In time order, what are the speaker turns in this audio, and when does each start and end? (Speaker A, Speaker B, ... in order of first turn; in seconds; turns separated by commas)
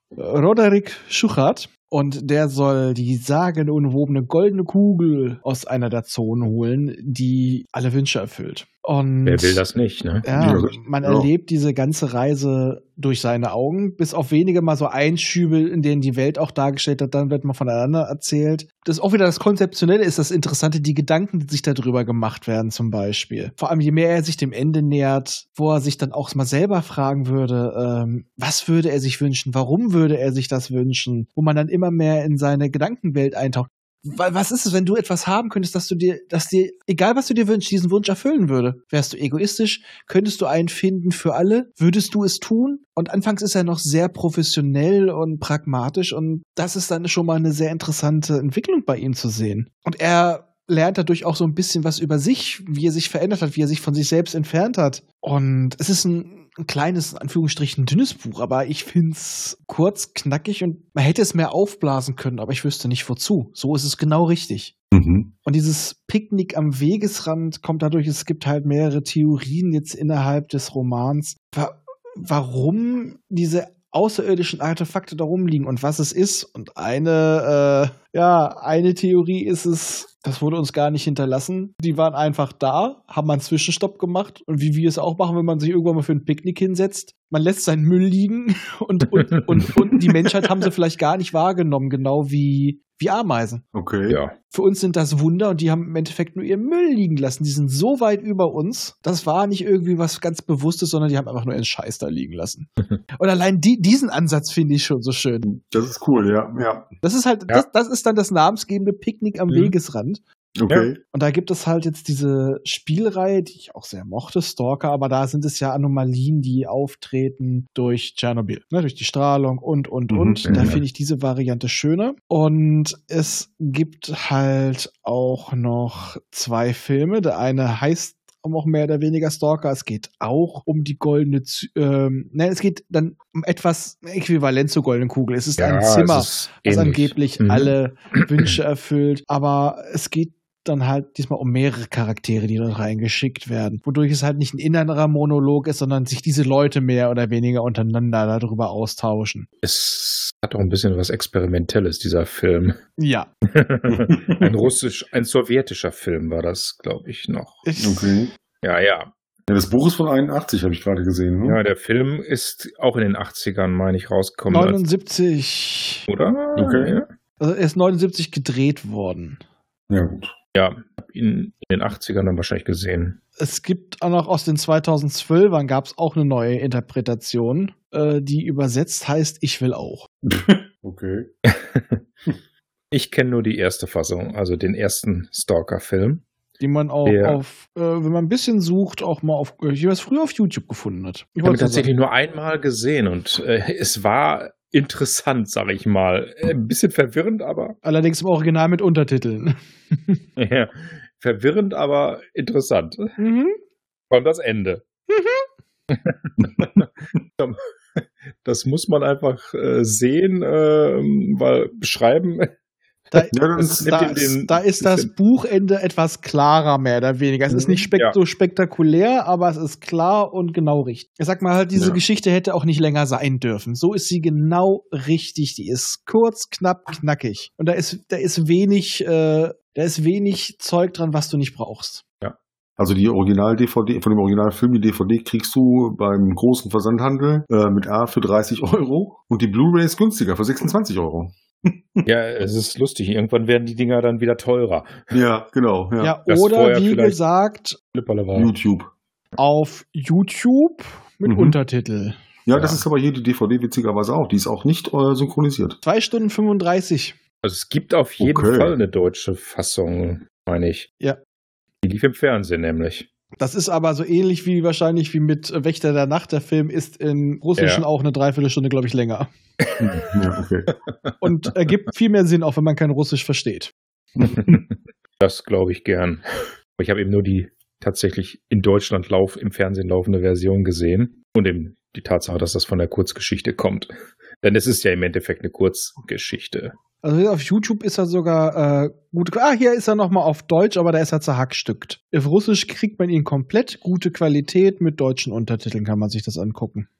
Speaker A: 0.2-9.6, Speaker B: 9.2-10.3, Speaker A: 10.2-64.7, Speaker C: 10.4-11.3, Speaker C: 64.9-65.3, Speaker A: 65.5-93.6, Speaker C: 93.7-94.2, Speaker B: 94.1-94.3, Speaker A: 94.5-105.5, Speaker C: 105.5-106.9, Speaker A: 107.0-110.2, Speaker C: 110.6-111.0, Speaker A: 111.1-149.5, Speaker C: 120.1-120.8, Speaker B: 120.5-120.8, Speaker B: 135.6-138.6, Speaker B: 149.6-152.8, Speaker A: 153.0-153.3, Speaker B: 153.6-157.6, Speaker C: 153.9-154.6, Speaker A: 157.7-158.3, Speaker C: 157.8-158.3, Speaker B: 158.6-159.1, Speaker C: 159.5-161.6, Speaker B: 161.4-164.8, Speaker A: 164.5-166.1, Speaker B: 166.1-167.1, Speaker C: 166.6-167.0, Speaker A: 167.4-169.4, Speaker C: 169.9-170.3, Speaker B: 170.5-173.2, Speaker A: 173.4-180.1, Speaker C: 180.3-181.3, Speaker B: 181.5-182.0, Speaker B: 182.9-186.2, Speaker A: 186.6-191.9, Speaker B: 187.0-187.4, Speaker B: 191.4-197.8, Speaker A: 197.8-200.2, Speaker B: 200.4-203.1, Speaker A: 203.2-203.6, Speaker B: 204.1-204.8, Speaker A: 205.1-205.5, Speaker B: 205.9-212.5, Speaker A: 213.1-232.0, Speaker B: 213.2-215.1, Speaker C: 213.3-214.1, Speaker B: 217.5-218.2, Speaker C: 221.7-222.0, Speaker C: 232.8-242.0, Speaker B: 242.1-245.2, Speaker C: 245.1-246.1, Speaker A: 246.0-247.8, Speaker B: 246.3-247.2, Speaker B: 247.9-248.6, Speaker C: 248.3-248.9, Speaker A: 249.4-252.2, Speaker C: 251.3-251.6, Speaker C: 252.5-255.8, Speaker B: 252.5-252.8, Speaker A: 255.8-257.2, Speaker B: 257.4-260.9, Speaker C: 258.2-258.8, Speaker B: 261.8-263.1, Speaker A: 263.4-269.3, Speaker B: 267.6-267.9, Speaker B: 269.7-270.1, Speaker C: 269.8-270.7, Speaker B: 270.9-271.1, Speaker A: 271.2-273.7, Speaker B: 274.2-276.2, Speaker B: 276.7-286.7, Speaker A: 287.0-296.9